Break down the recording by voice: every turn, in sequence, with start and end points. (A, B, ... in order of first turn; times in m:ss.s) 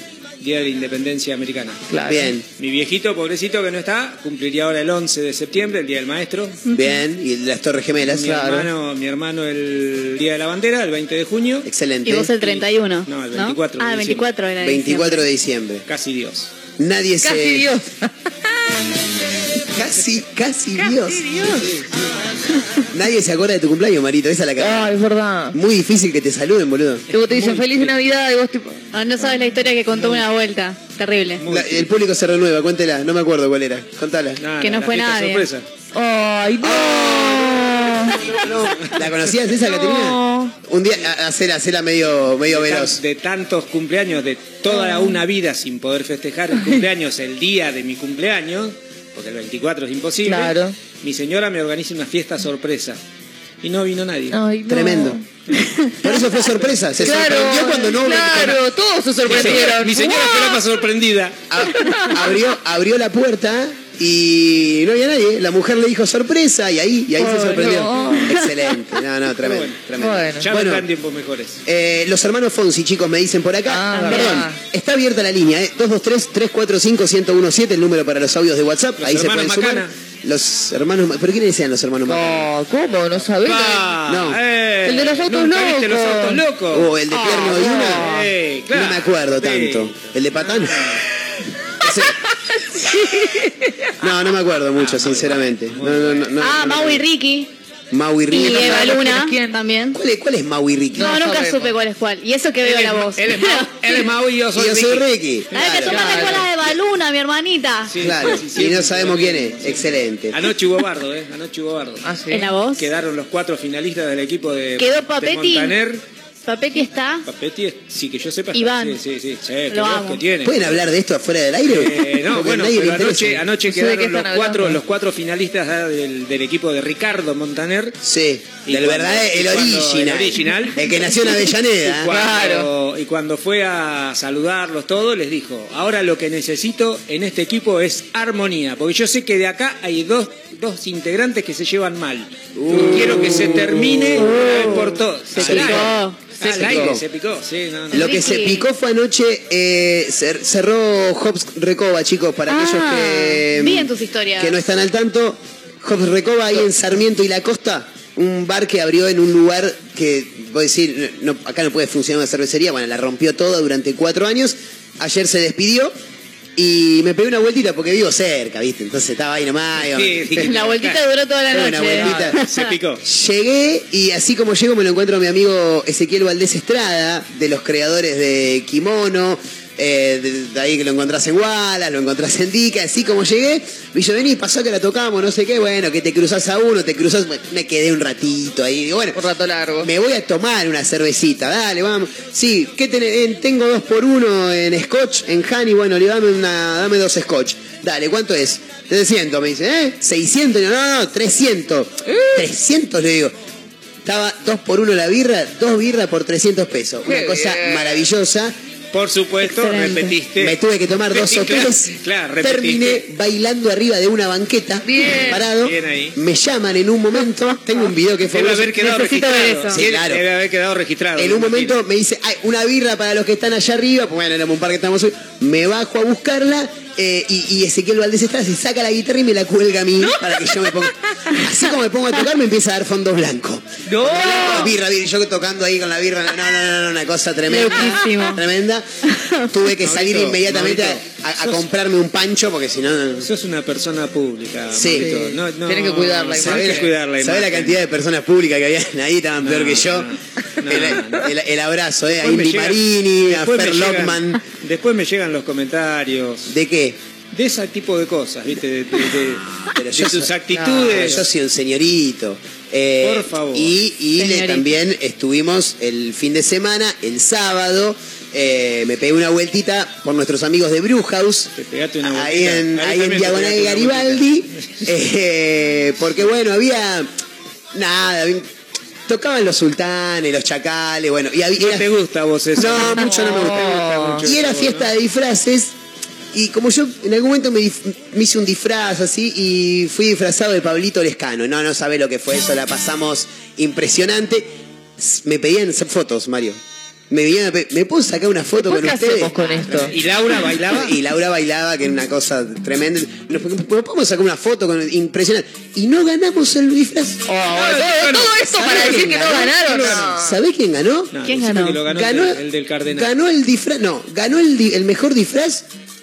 0:00.4-0:01.8 A
0:01.9-0:02.3 B
0:02.1-0:02.4 C
0:02.6-0:06.6 A
0:06.7-0:08.3 C
0:08.0-0:11.7 A
0:08.2-0:08.7 B
0:11.6-0:12.3 C
0:12.0-0:15.3 D
0:12.4-0:14.3 A
0:14.6-0:15.8 C
0:15.9-0:16.5 A
0:16.8-0:17.7 C
0:17.2-0:18.3 B
0:19.7-0:21.2 C
0:20.8-0:21.6 B
0:21.4-0:21.9 A
0:22.9-0:24.9 C
0:24.6-0:25.6 B
0:25.5-0:27.0 C
0:27.1-0:27.9 A
0:27.1-0:28.8 B
0:28.9-0:31.4 D
0:29.9-0:30.2 A
0:31.4-0:31.9 A
0:31.5-0:34.4 C
0:34.4-0:35.7 A
0:34.6-0:35.5 D
0:35.9-0:38.2 B
0:36.6-0:43.0 C
0:38.8-0:39.2 A
0:39.7-0:40.5 B
0:42.4-0:53.0 A
0:44.7-0:45.2 B
0:50.2-0:50.8 B
0:53.6-0:54.4 A
0:54.3-0:55.2 B
0:54.7-0:55.2 C
0:56.0-0:58.6 C
0:56.5-0:56.8 A
0:57.0-1:00.6 B
0:59.3-1:01.4 A
0:59.3-0:59.6 C
1:01.5-1:10.8 C
1:01.8-1:02.1 B
1:07.2-1:08.4 B
1:09.4-1:09.8 A
1:10.0-1:10.5 B
1:10.4-1:11.6 A
1:11.6-1:22.5 C
1:13.6-1:14.6 B
1:13.9-1:14.3 D
1:19.0-1:19.9 A
1:22.0-1:23.9 B
1:23.4-1:26.9 A
1:24.0-1:24.4 C
1:24.8-1:26.4 B
1:26.7-1:28.1 C
1:27.1-1:28.3 B
1:27.7-1:31.0 A
1:28.7-1:30.9 C
1:31.8-1:32.2 C
1:34.0-1:37.0 C
1:34.7-1:36.4 A
1:36.4-1:37.5 D
1:37.9-1:39.0 C
1:38.3-1:40.0 D
1:38.3-1:39.6 B
1:39.9-1:41.2 C
1:40.9-1:41.7 B
1:41.0-1:44.0 D
1:42.6-1:45.8 A
1:44.5-1:46.1 C
1:45.5-1:47.9 D
1:45.9-1:46.5 B
1:47.9-1:52.0 A
1:48.0-1:50.4 C
1:52.0-1:52.5 B
1:52.3-1:52.9 D
1:52.8-1:56.0 A
1:54.8-1:55.8 D
1:56.4-1:57.2 D
1:57.2-2:00.8 A
1:58.5-1:59.0 D
1:59.7-2:00.2 D
2:00.4-2:03.4 C
2:01.7-2:08.0 A
2:03.7-2:04.8 B
2:08.0-2:12.1 C
2:08.6-2:11.1 A
2:11.8-2:28.5 A
2:12.1-2:12.7 B
2:22.6-2:25.9 C
2:25.3-2:26.2 D
2:26.4-2:26.8 B
2:26.4-2:27.0 C
2:27.9-2:28.6 D
2:27.9-2:45.9 C
2:32.5-2:34.6 D
2:46.6-2:50.5 C
2:49.8-2:51.0 A
2:50.4-2:52.7 D
2:51.5-2:52.4 C
2:52.0-2:52.3 B
2:52.4-2:53.0 A
2:53.0-3:09.2 C
3:09.1-3:09.9 B
3:09.8-3:23.3 C
3:22.1-3:22.4 B
3:24.0-3:28.5 C
3:27.0-3:28.0 B
3:28.9-3:30.6 A
3:29.4-3:30.1 D
3:30.4-3:38.8 C
3:31.1-3:33.0 A
3:34.8-3:35.4 B
3:35.3-3:36.2 A
3:38.3-3:41.7 A
3:38.8-3:39.8 D
3:39.7-3:40.2 C
3:41.2-3:58.8 C
3:54.2-3:54.5 A
3:57.5-3:58.4 D
3:59.1-3:59.5 D
3:59.5-4:03.3 C
3:59.8-4:01.6 A
4:03.2-4:07.8 A
4:04.7-4:05.1 C
4:05.0-4:06.9 B
4:06.4-4:10.1 C
4:09.4-4:11.3 A
4:10.6-4:14.4 C
4:12.2-4:16.5 A
4:16.5-4:17.0 C
4:17.3-4:21.2 A
4:19.7-4:31.5 C
4:20.5-4:20.9 B
4:23.0-4:23.7 A
4:24.2-4:24.7 D
4:31.6-4:34.9 A
4:32.0-4:37.1 C
4:37.7-4:38.5 C
4:39.1-4:41.9 C
4:41.6-4:44.9 A
4:42.5-4:45.7 C
4:42.9-4:44.2 B
4:46.3-4:59.9 C
4:58.6-4:59.9 B
4:59.8-5:01.0 A
5:00.7-5:07.2 C
5:07.3-5:10.4 B
5:07.5-5:10.1 A
5:08.5-5:11.1 C
5:11.1-5:13.1 A
5:11.2-5:11.8 D
5:11.8-5:15.6 C